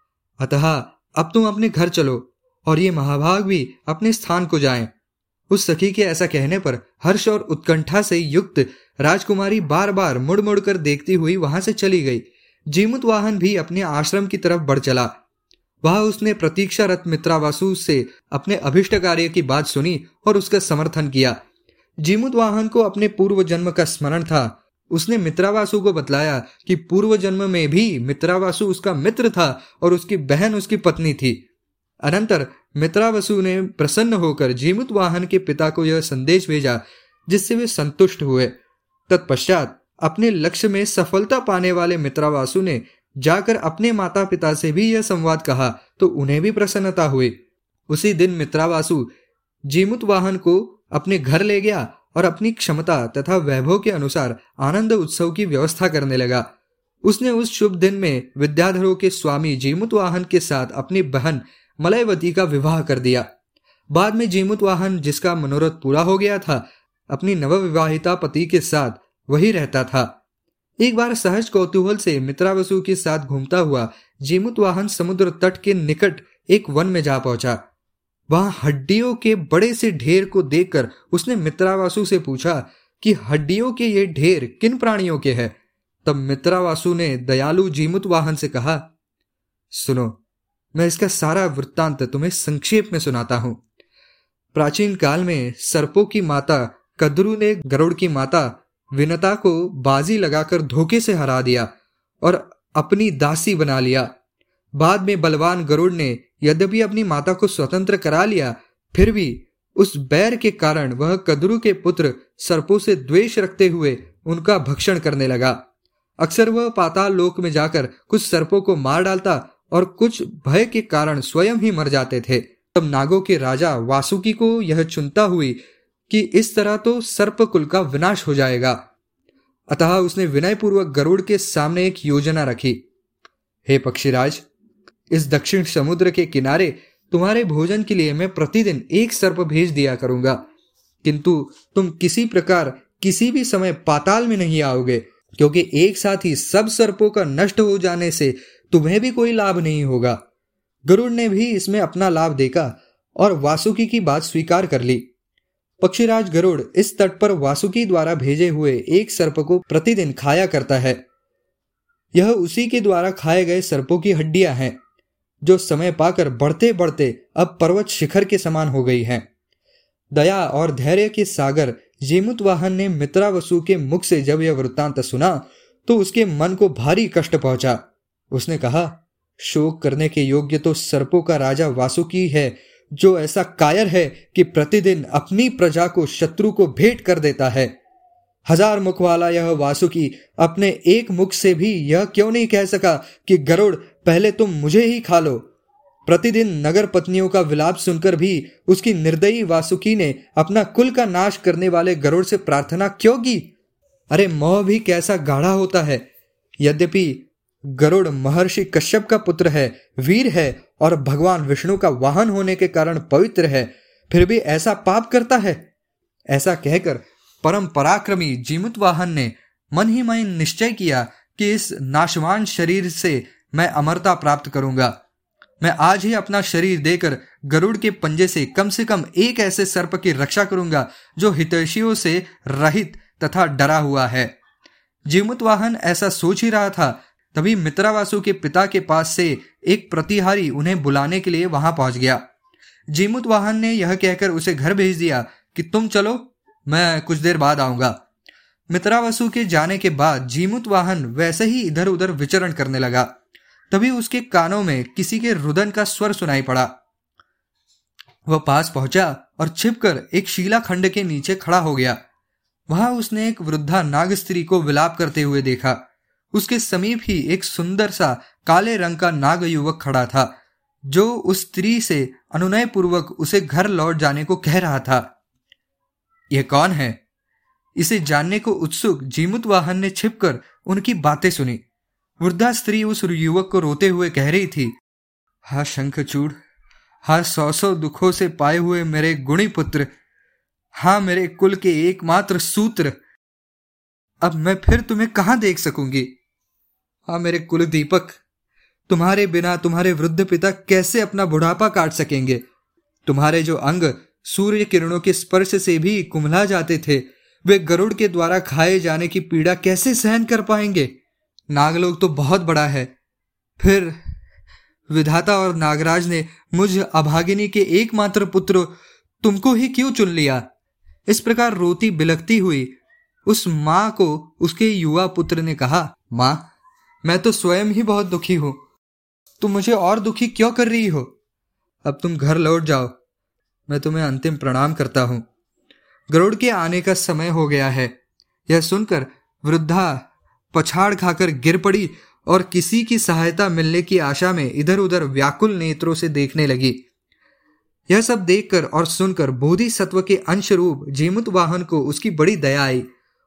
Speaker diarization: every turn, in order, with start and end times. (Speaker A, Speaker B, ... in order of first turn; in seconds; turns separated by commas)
Speaker A: 0.4-4.9, Speaker A: 5.5-15.1, Speaker A: 15.8-21.4, Speaker A: 22.0-31.4, Speaker A: 32.0-38.5, Speaker A: 39.1-47.3, Speaker A: 47.9-49.1, Speaker A: 49.7-56.5, Speaker A: 57.0-63.3, Speaker A: 63.9-70.1, Speaker A: 70.8-77.6, Speaker A: 78.3-88.8, Speaker A: 89.7-90.2, Speaker A: 90.7-93.6, Speaker A: 94.5-101.7, Speaker A: 102.2-104.1, Speaker A: 104.8-115.6, Speaker A: 116.2-128.8, Speaker A: 129.7-132.8, Speaker A: 133.7-134.4, Speaker A: 135.1-140.4, Speaker A: 141.0-150.2, Speaker A: 150.8-155.1, Speaker A: 155.8-161.0, Speaker A: 162.1-164.8, Speaker A: 165.4-169.3, Speaker A: 170.1-187.7, Speaker A: 188.4-195.4, Speaker A: 196.1-203.5, Speaker A: 204.1-206.0, Speaker A: 206.6-215.7, Speaker A: 216.3-224.9, Speaker A: 225.6-234.3, Speaker A: 235.1-242.2, Speaker A: 242.9-248.0, Speaker A: 248.7-253.1, Speaker A: 253.7-256.7, Speaker A: 258.3-262.0, Speaker A: 262.7-265.8, Speaker A: 266.3-270.3, Speaker A: 270.9-275.1, Speaker A: 276.3-277.0, Speaker A: 277.8-281.6, Speaker A: 282.2-284.7, Speaker A: 285.4-286.4, Speaker A: 287.0-289.9, Speaker A: 290.8-292.9, Speaker A: 294.2-296.1, Speaker A: 297.1-298.2, Speaker A: 298.9-302.4, Speaker A: 303.1-310.9, Speaker A: 311.5-312.9, Speaker A: 313.6-314.0, Speaker A: 314.9-320.4, Speaker A: 321.1-322.7, Speaker A: 323.2-326.4, Speaker A: 327.0-328.6, Speaker A: 329.4-331.1, Speaker A: 331.8-332.9, Speaker A: 333.7-335.2, Speaker A: 336.1-337.9, Speaker A: 338.5-346.8, Speaker A: 347.9-352.9